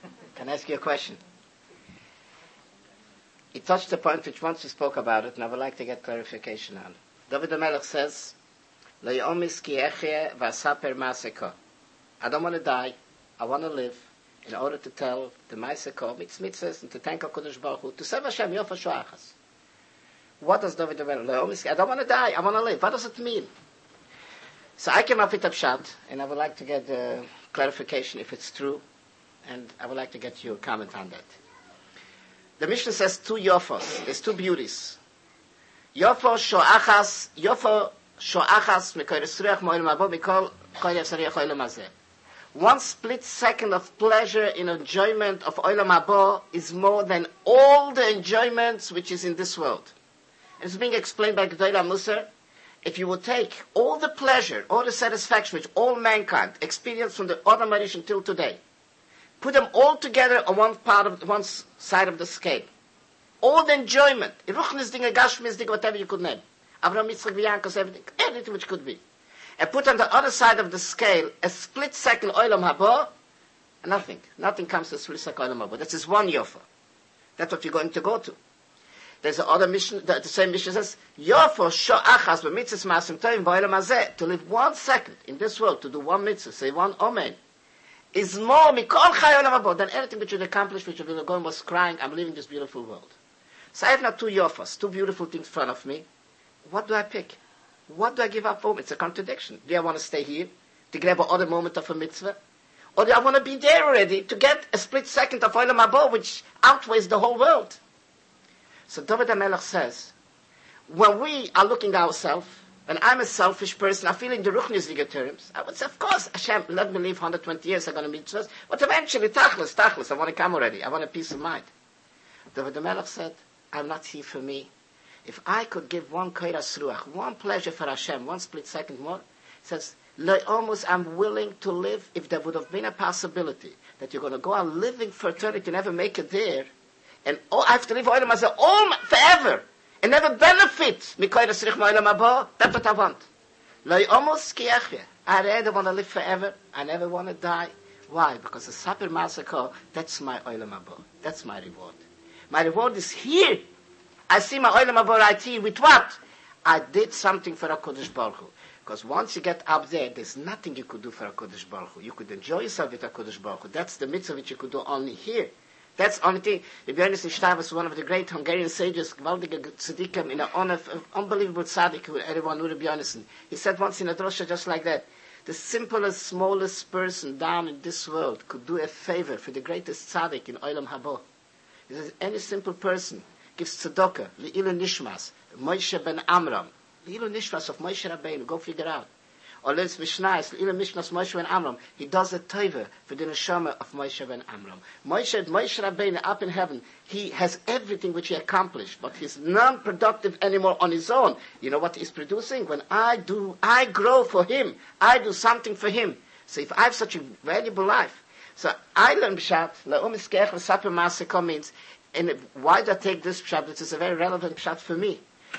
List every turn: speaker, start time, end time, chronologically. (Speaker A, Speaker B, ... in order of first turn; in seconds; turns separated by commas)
Speaker A: 0.4-1.2, Speaker A: 3.5-8.4, Speaker A: 9.0-11.6, Speaker A: 12.2-19.4, Speaker A: 20.4-23.5, Speaker A: 24.8-28.8, Speaker A: 29.4-31.4, Speaker A: 32.6-35.0, Speaker A: 36.0-41.9, Speaker A: 42.5-49.9, Speaker A: 50.6-52.3, Speaker A: 52.8-58.6, Speaker A: 59.4-62.7, Speaker A: 63.4-69.0, Speaker A: 69.6-73.1, Speaker A: 73.8-76.6, Speaker A: 77.4-78.4, Speaker A: 79.2-87.4, Speaker A: 88.1-93.1, Speaker A: 93.7-96.1, Speaker A: 96.7-97.4, Speaker A: 97.9-102.4, Speaker A: 103.0-107.8, Speaker A: 108.9-110.1, Speaker A: 110.9-121.7, Speaker A: 122.5-124.7, Speaker A: 125.2-136.7, Speaker A: 137.2-143.3, Speaker A: 143.8-153.7, Speaker A: 154.3-181.2, Speaker A: 181.9-189.1, Speaker A: 189.6-215.2